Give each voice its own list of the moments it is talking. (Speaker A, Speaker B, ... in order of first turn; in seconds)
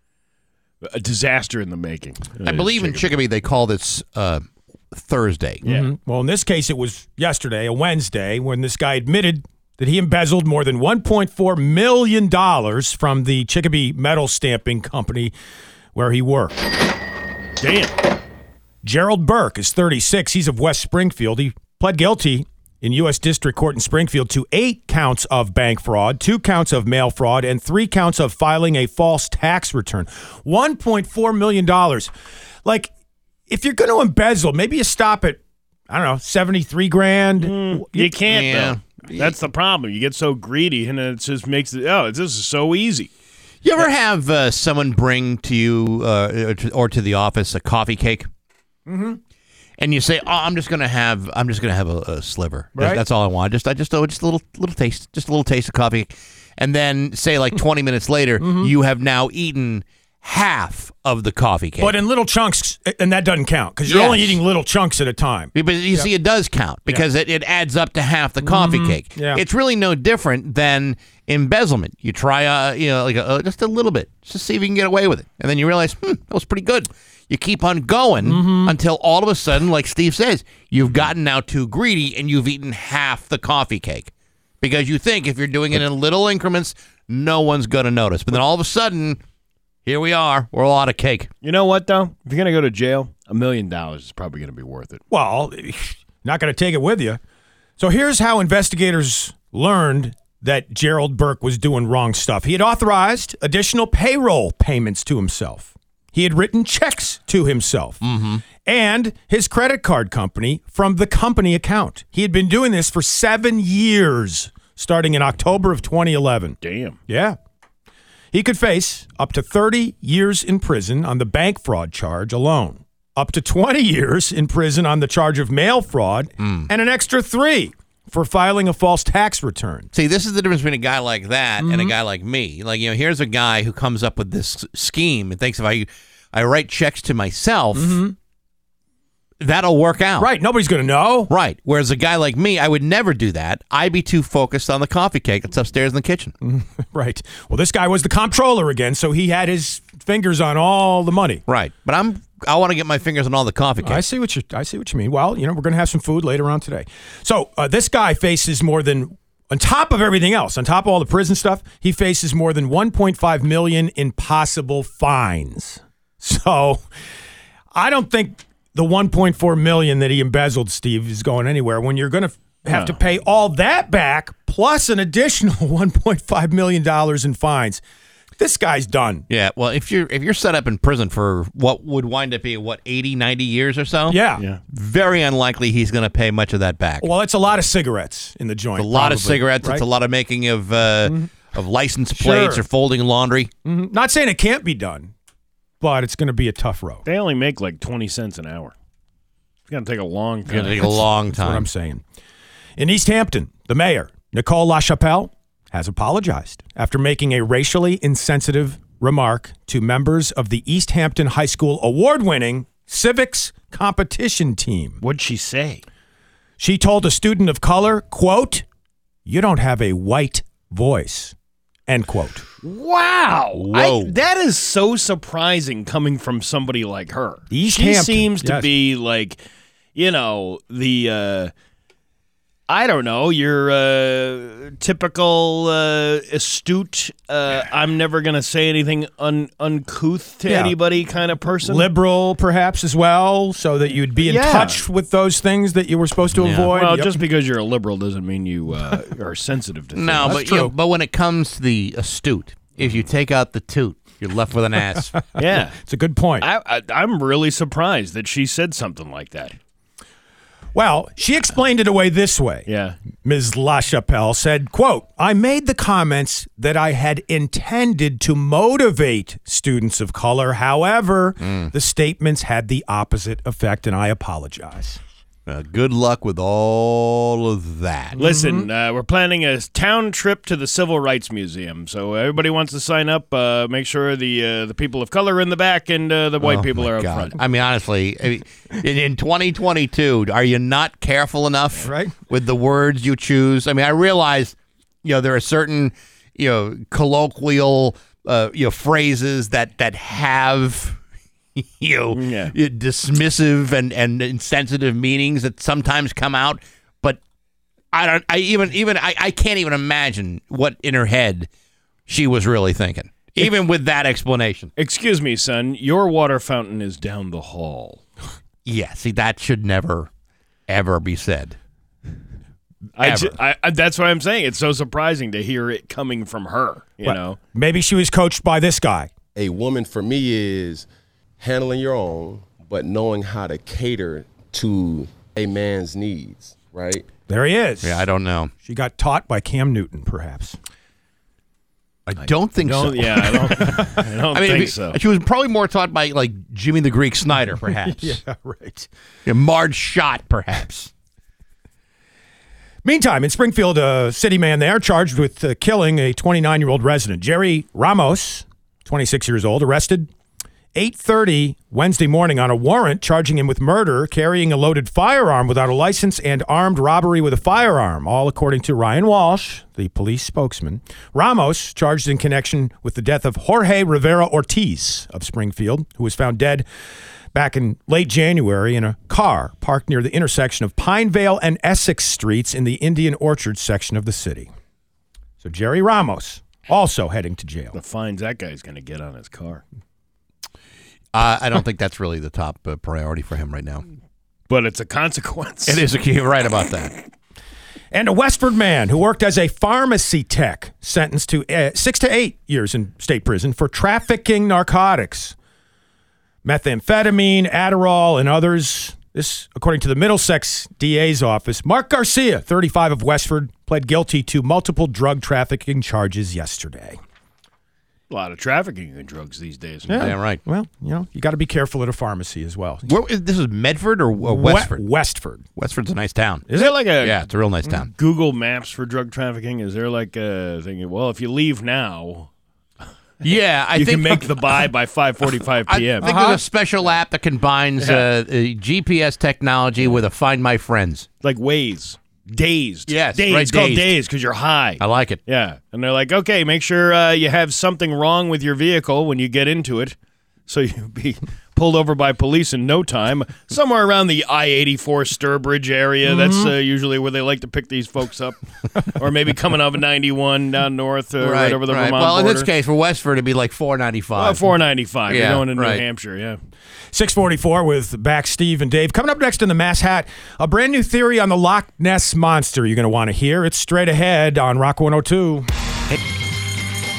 Speaker A: 0.8-3.2, 5.6-5.9, 17.6-17.9, 37.4-43.1, 91.4-95.0, 116.6-117.0, 172.7-173.0, 197.1-198.7, 199.7-201.0, 215.0-215.8, 222.6-229.4, 229.9-231.5, 232.7-241.9, 244.2-244.8, 246.7-250.4, 255.4-255.8, 256.4-259.6, 262.7-263.0, 278.2-287.4, 302.1-302.5, 314.8-318.0, 323.0-327.4, 342.6-345.0, 387.7-389.6, 394.5-395.8, 418.1-420.0, 426.5-432.3, 433.7-436.2, 437.8-438.1, 441.2-450.0, 450.5-462.5, 464.2-466.4
Speaker B: 2.4-5.6, 38.2-39.3, 43.6-48.3, 49.8-62.0, 63.9-64.4, 65.5-89.2, 89.9-91.3, 108.0-108.4, 126.4-126.7, 129.9-138.0, 139.4-140.3, 141.3-146.3, 151.5-154.0, 179.3-187.1, 188.8-193.5, 200.5-201.7, 223.5-224.2, 246.4-246.7, 249.9-255.1, 271.4-271.7, 275.5-278.2, 286.4-301.0, 301.6-307.2, 307.9-311.5, 312.1-314.7, 318.7-320.1, 320.7-321.6, 323.0-323.3, 337.8-338.5, 342.1-348.2, 349.3-350.9, 391.1-393.8, 395.7-396.9, 419.9-420.4, 422.9-424.8, 425.6-427.9, 433.2-434.4, 435.7-441.1, 442.9-443.9, 444.8-445.2, 461.2-464.5, 465.1-465.8
Speaker C: 5.6-15.3, 15.9-16.6, 18.8-32.1, 32.6-32.9, 33.5-38.1, 48.9-49.2, 52.8-53.0, 58.4-58.7, 61.8-66.1, 68.4-69.4, 78.2-78.7, 95.1-97.2, 97.8-117.4, 118.3-129.9, 131.6-131.9, 137.8-138.2, 140.2-141.3, 146.4-151.4, 153.8-166.8, 167.7-177.8, 178.4-179.3, 184.1-184.4, 187.0-189.8, 191.1-191.3, 192.2-192.6, 193.7-195.1, 195.8-197.1, 201.3-202.0, 202.8-215.0, 216.6-218.7, 219.3-221.3, 221.9-222.5, 227.5-228.7, 240.5-240.8, 241.6-247.2, 250.2-250.7, 255.4-256.5, 260.7-262.7, 263.2-275.0, 278.2-278.7, 291.8-292.1, 327.0-329.1, 337.3-338.1, 338.6-340.6, 347.6-348.9, 352.8-360.1, 360.8-376.7, 377.3-384.5, 385.4-387.8, 397.9-405.4, 406.4-417.0, 419.9-422.9, 424.2-425.4, 436.0-436.4, 456.1-456.5, 466.9-475.5
Speaker D: 329.4-330.9, 331.4-337.1